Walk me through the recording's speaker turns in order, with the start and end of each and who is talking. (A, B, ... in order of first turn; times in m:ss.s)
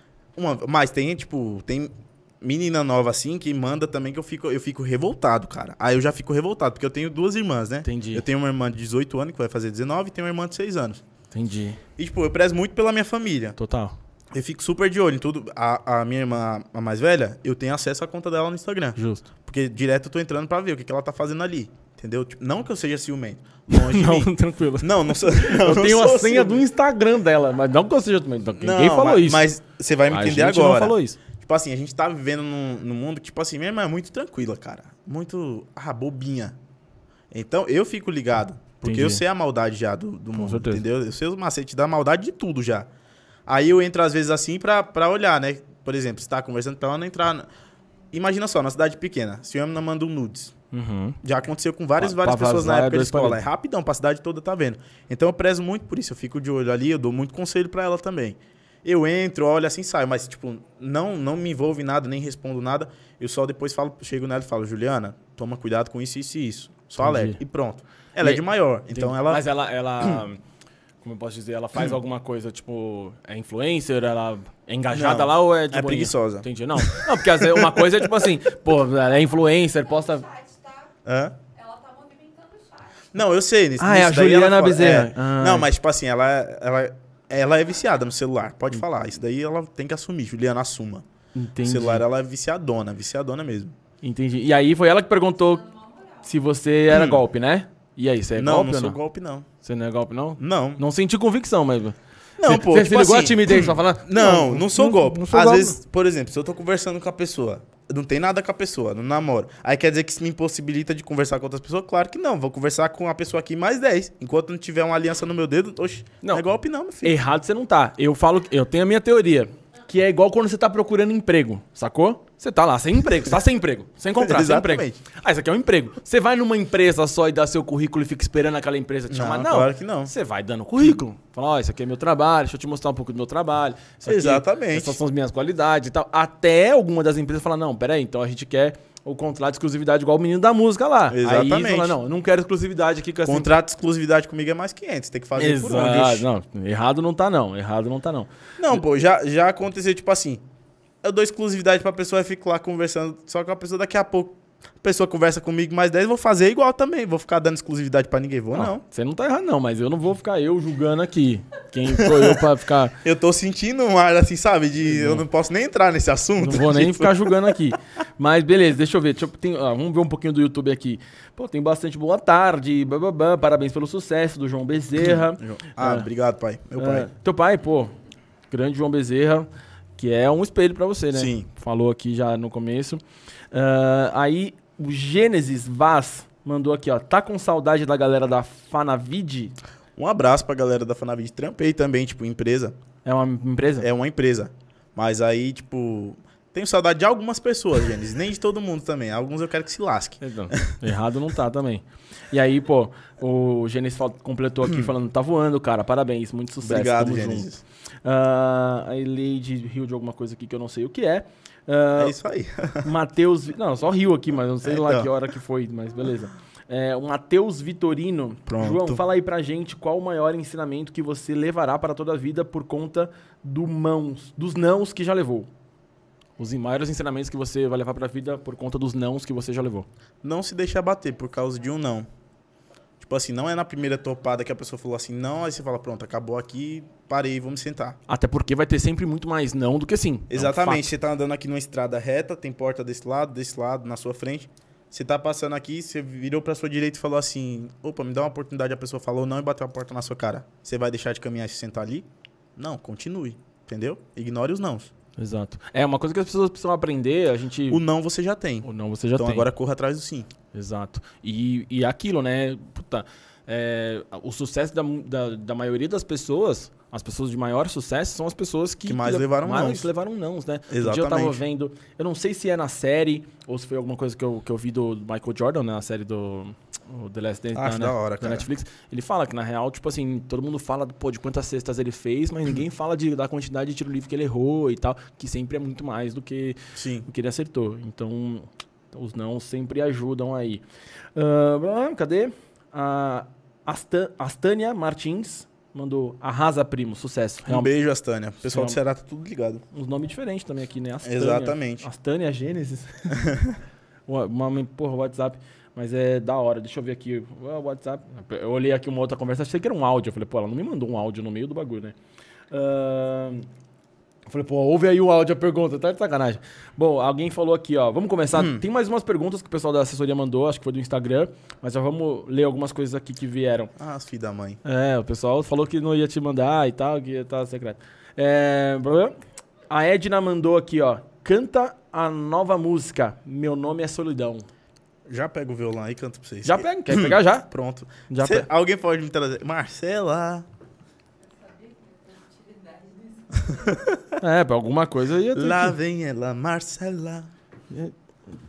0:00.4-0:11.0 A
0:07.8-0:08.2 B
0:11.3-0:11.8 B
0:12.0-0:13.6 A
0:13.6-0:13.9 B
0:14.3-0:26.6 A
0:19.0-0:19.2 B
0:23.7-0:29.4 B
0:28.6-0:36.6 A
0:30.1-0:31.2 B
0:37.3-0:42.9 A
0:38.8-0:39.2 B
0:40.4-0:40.8 B
0:43.5-0:47.4 A
0:48.1-0:50.5 A
0:50.7-0:51.2 B
0:51.2-1:09.4 A
0:52.0-0:53.4 B
1:07.0-1:07.4 B
1:08.2-1:10.4 B
1:11.0-1:20.2 B
1:14.9-1:18.3 A
1:19.6-1:20.9 C
1:21.0-1:21.4 A
1:21.5-1:23.1 C
1:23.1-1:31.0 A
1:23.8-1:25.7 B
1:31.3-1:32.0 B
1:31.6-1:33.8 A
1:34.0-1:35.6 B
1:35.4-1:36.3 C
1:36.2-1:39.0 B
1:36.9-1:37.2 A
1:38.4-1:39.5 A
1:39.6-1:45.8 B
1:40.4-1:40.8 A
1:42.4-1:57.2 A
1:57.0-2:23.5 B
2:04.1-2:05.0 A
2:09.1-2:10.1 A
2:14.0-2:15.0 A
2:21.1-2:22.0 A
2:23.2-2:26.2 A
2:25.4-2:28.3 B
2:28.6-2:30.4 A
2:31.0-2:38.8 A
2:38.5-2:42.9 B
2:41.9-2:42.4 A
2:43.0-2:47.6 A
2:44.9-2:45.2 B
2:46.4-2:56.1 B
2:55.0-2:57.1 A
2:56.8-2:57.9 B
2:58.5-3:03.0 B
3:01.1-3:01.5 A
3:03.5-3:09.5 B
3:10.0-3:12.7 A
3:13.0-3:13.9 B
3:13.8-3:20.8 A
3:20.2-3:27.5 B
3:24.6-3:24.9 A
3:26.6-3:27.6 A
3:28.0-3:32.1 B
3:32.0-3:32.9 A
3:32.8-3:45.5 B
3:34.6-3:35.1 A
3:38.5-3:39.0 A
3:46.4-3:49.9 B
3:50.2-3:52.1 A
3:53.0-3:58.0 A
3:58.1-4:00.9 B
4:00.3-4:14.9 A
4:15.2-4:17.8 B
4:17.7-4:20.3 A
4:18.6-4:19.5 B
4:20.5-4:50.6 B
4:28.8-4:29.9 A
4:30.7-4:31.4 A
4:37.5-4:38.5 A
4:46.8-4:47.1 A
4:51.1-4:57.7 B
4:57.4-4:59.6 A
4:58.4-4:58.8 B
4:59.7-5:03.4 B
5:01.0-5:01.8 A
5:03.1-5:03.6 A
5:04.1-5:11.9 B
5:12.5-5:13.5 B
5:14.3-5:23.7 B
5:18.3-5:18.6 A
5:23.8-5:24.6 A
5:24.6-5:29.2 B
5:29.7-5:34.5 B
5:35.1-5:40.4 A
5:36.4-5:37.5 B
5:38.1-5:38.5 B
5:41.2-5:43.9 C
5:43.5-5:44.1 A
5:44.2-5:45.8 B
5:45.3-5:47.3 A